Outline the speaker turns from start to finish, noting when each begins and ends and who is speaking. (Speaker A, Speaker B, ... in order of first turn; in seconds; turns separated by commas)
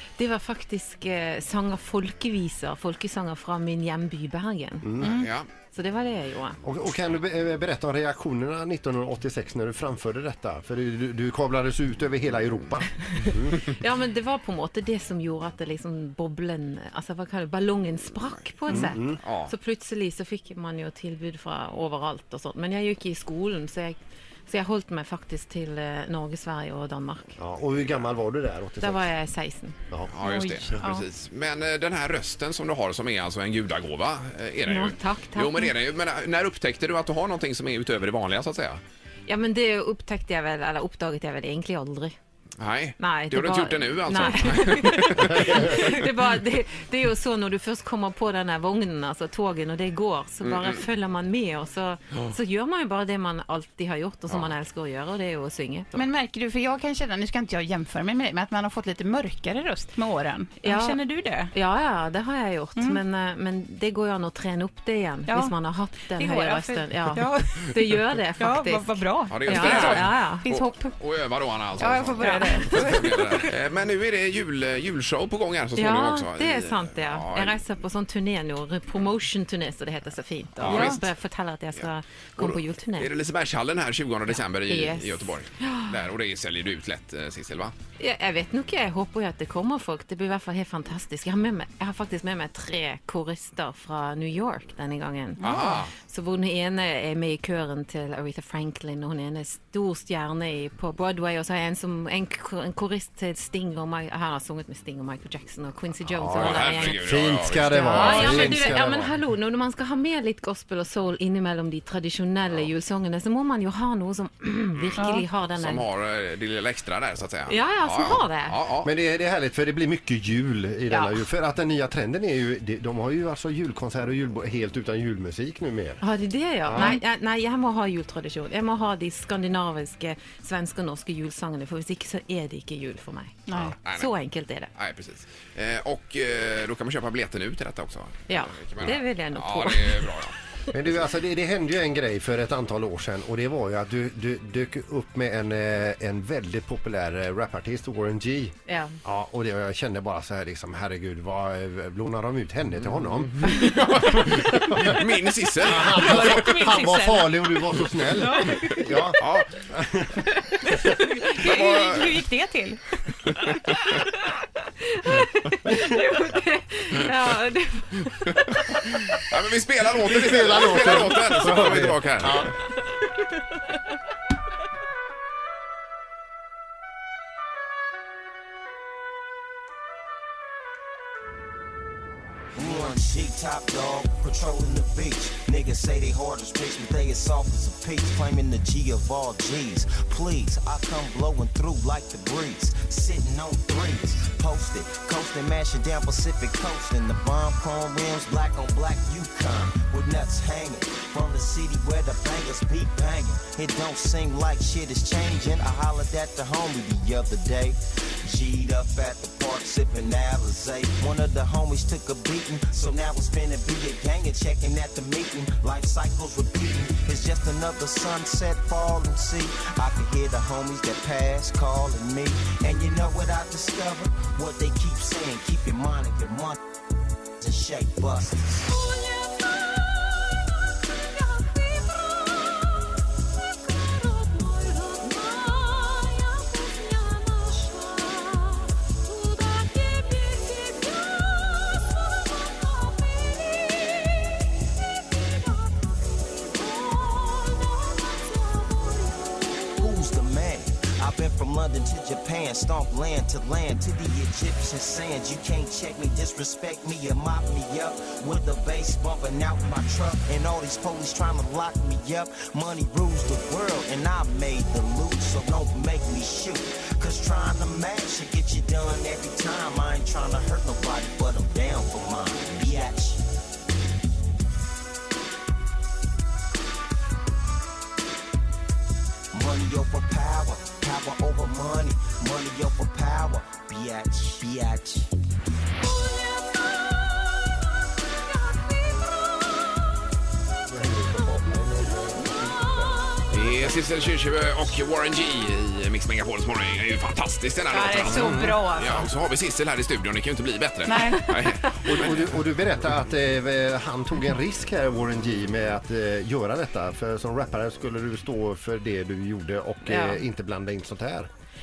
Speaker A: 0.2-5.1, Speaker B: 4.8-5.2, Speaker C: 5.0-5.3, Speaker D: 5.2-5.5, Speaker A: 5.7-6.6, Speaker B: 6.6-13.6, Speaker A: 13.5-27.4, Speaker B: 18.7-19.2, Speaker D: 18.7-19.5, Speaker B: 27.4-29.1, Speaker A: 28.8-29.8, Speaker D: 30.1-38.8, Speaker C: 30.2-30.7, Speaker A: 34.6-35.8, Speaker A: 39.3-42.1, Speaker D: 42.6-46.0, Speaker A: 43.0-56.1, Speaker D: 50.4-50.8, Speaker C: 56.0-61.5, Speaker A: 60.6-61.0, Speaker A: 61.5-70.5, Speaker C: 62.8-63.0, Speaker C: 65.3-65.5, Speaker C: 66.1-70.9, Speaker D: 69.3-77.6, Speaker C: 71.8-73.5, Speaker A: 72.2-72.8, Speaker A: 75.8-83.1, Speaker D: 80.6-81.1, Speaker C: 80.7-81.0, Speaker D: 82.4-87.7, Speaker A: 84.5-86.0, Speaker A: 88.0-107.1, Speaker C: 95.4-95.8, Speaker D: 95.4-95.9, Speaker B: 106.1-109.2, Speaker D: 106.3-108.8, Speaker A: 107.6-115.9, Speaker C: 115.0-115.2, Speaker D: 115.0-118.9, Speaker A: 117.5-118.6, Speaker B: 118.8-126.0, Speaker A: 120.9-121.2, Speaker A: 126.0-134.7, Speaker B: 126.6-127.0, Speaker C: 133.5-133.8, Speaker D: 133.6-134.1, Speaker D: 134.8-140.3, Speaker A: 138.3-140.3, Speaker B: 140.7-155.0, Speaker A: 148.7-149.0, Speaker D: 153.3-156.6, Speaker B: 155.6-160.3, Speaker C: 156.3-157.6, Speaker C: 158.1-158.7, Speaker D: 158.6-159.5, Speaker A: 161.1-161.4, Speaker C: 161.3-163.0, Speaker D: 161.4-162.2, Speaker A: 163.5-169.2, Speaker D: 169.2-172.5, Speaker B: 170.0-172.6, Speaker A: 172.9-173.2, Speaker E: 182.6-226.6, Speaker E: 227.4-228.7, Speaker C: 228.9-232.9, Speaker C: 233.5-244.4, Speaker C: 245.2-249.2, Speaker E: 249.8-273.2, Speaker E: 279.3-285.1, Speaker B: 290.7-293.7, Speaker D: 293.3-302.1, Speaker C: 297.7-299.1, Speaker B: 298.1-298.5, Speaker C: 300.9-301.2, Speaker B: 301.7-311.3, Speaker A: 309.9-310.2